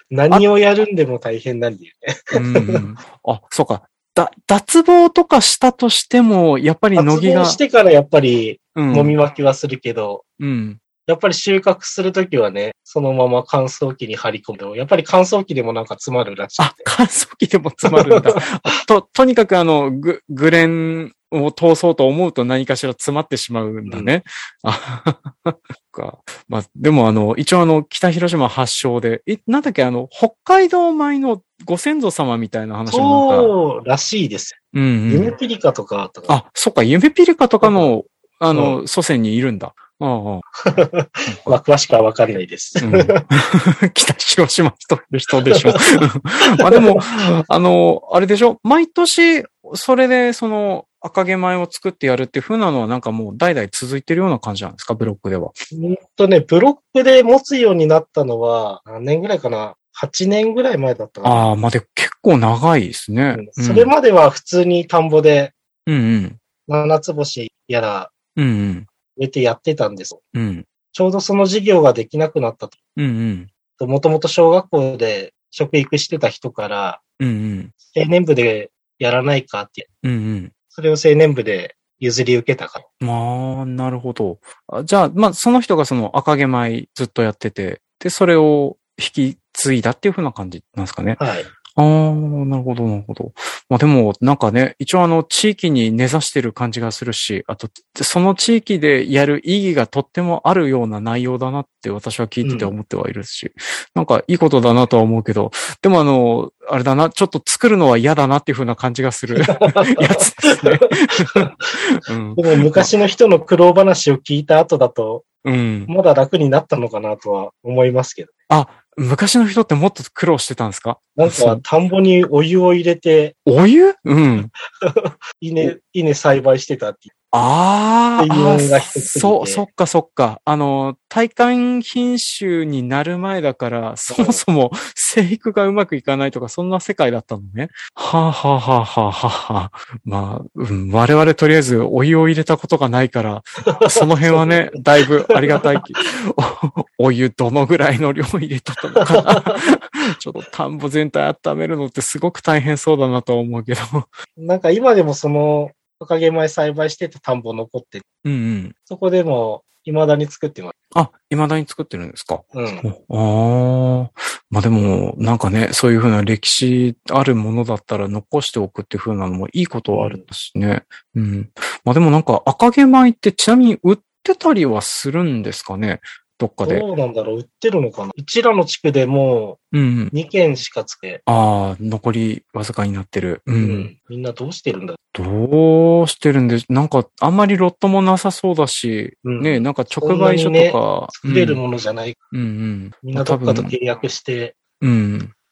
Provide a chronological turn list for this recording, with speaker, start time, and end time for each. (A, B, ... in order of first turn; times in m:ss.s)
0:00.1-0:02.8 A
0:02.3-0:07.6 B
0:07.0-0:10.2 A
0:08.7-0:09.2 B
0:10.4-0:10.8 B
0:11.0-0:16.9 A
0:16.6-0:33.5 B
0:17.8-0:18.8 A
0:23.8-0:24.1 A
0:32.9-0:36.3 A
0:34.7-0:35.3 B
0:36.3-0:40.4 B
0:37.6-0:37.9 A
0:38.5-0:38.8 A
0:40.6-0:43.2 A
0:41.3-0:41.6 B
0:42.8-0:55.5 B
0:45.4-0:45.8 A
0:46.4-0:47.0 A
0:55.7-1:01.5 A
1:01.2-1:03.9 B
1:03.3-1:05.5 A
1:05.8-1:06.4 B
1:06.6-1:08.1 A
1:08.4-1:08.9 B
1:09.2-1:10.2 A
1:10.3-1:10.6 B
1:10.9-1:12.8 A
1:13.0-1:13.5 B
1:13.8-1:17.0 A
1:17.2-1:17.7 B
1:17.9-1:19.9 A
1:20.0-1:20.5 B
1:20.7-1:22.8 A
1:23.0-1:31.2 B
1:31.2-1:31.5 A
1:31.7-1:52.9 B
1:42.4-1:42.7 A
1:49.3-1:51.6 A
1:52.4-1:55.3 A
1:55.4-1:55.9 B
1:55.9-1:58.3 A
1:58.5-2:01.6 B
2:01.2-2:03.4 A
2:03.4-2:04.5 B
2:04.8-2:07.1 A
2:07.3-2:34.1 B
2:08.2-2:09.6 A
2:14.1-2:14.4 A
2:23.7-2:25.8 A
2:29.0-2:29.6 A
2:34.4-2:38.0 A
2:38.2-2:38.7 B
2:38.9-2:40.7 A
2:40.9-2:56.8 B
2:42.5-2:42.8 A
2:49.9-2:50.2 A
2:56.6-2:59.6 A
2:59.7-3:00.1 B
3:00.1-3:01.2 A
3:01.2-3:03.9 B
3:03.6-3:05.0 A
3:05.1-3:11.6 B
3:09.2-3:12.2 A
3:12.3-3:13.8 B
3:13.0-3:14.6 A
3:14.8-3:15.3 B